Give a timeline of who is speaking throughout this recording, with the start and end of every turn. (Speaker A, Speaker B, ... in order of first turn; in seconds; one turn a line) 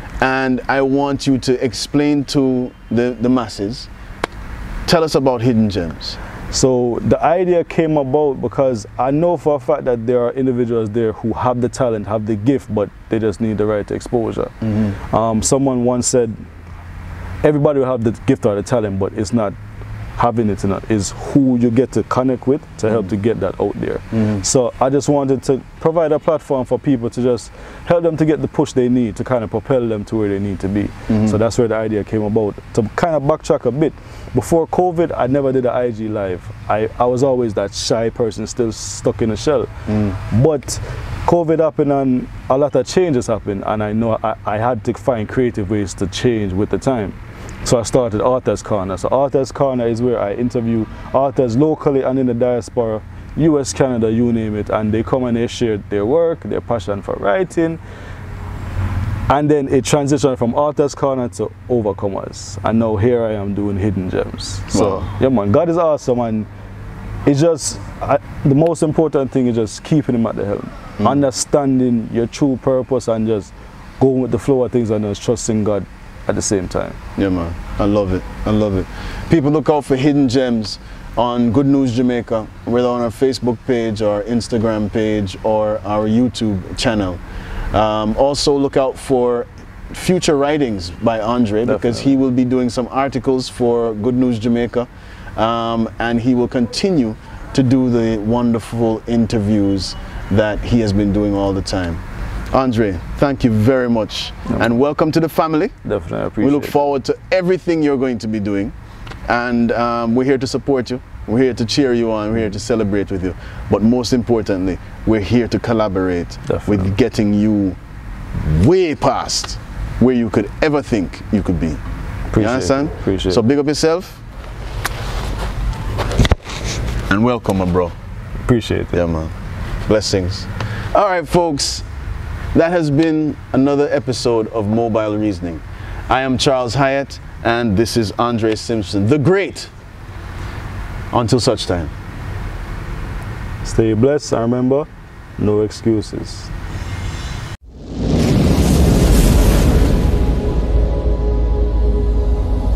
Speaker A: 0.2-3.9
Speaker A: 4.8-6.2
Speaker B: 6.5-16.4
Speaker A: 14.6-14.9
Speaker B: 17.4-19.6
Speaker B: 20.1-57.8
Speaker A: 24.1-24.4
Speaker A: 31.1-31.4
Speaker A: 39.9-40.2
Speaker B: 59.3-66.5
Speaker A: 64.7-65.0
Speaker B: 67.2-77.0
Speaker A: 77.2-87.2
Speaker A: 87.7-105.8
Speaker B: 91.7-92.1
Speaker B: 105.8-106.8
Speaker A: 106.4-108.7
Speaker A: 109.3-117.8
Speaker B: 116.5-116.9
Speaker A: 118.3-121.8
Speaker B: 122.3-123.4
Speaker A: 122.4-124.2
Speaker A: 127.1-127.9
Speaker B: 128.4-128.9
Speaker A: 128.9-129.3
Speaker A: 129.8-131.8
Speaker A: 132.5-139.7
Speaker A: 141.1-141.9
Speaker B: 143.6-146.5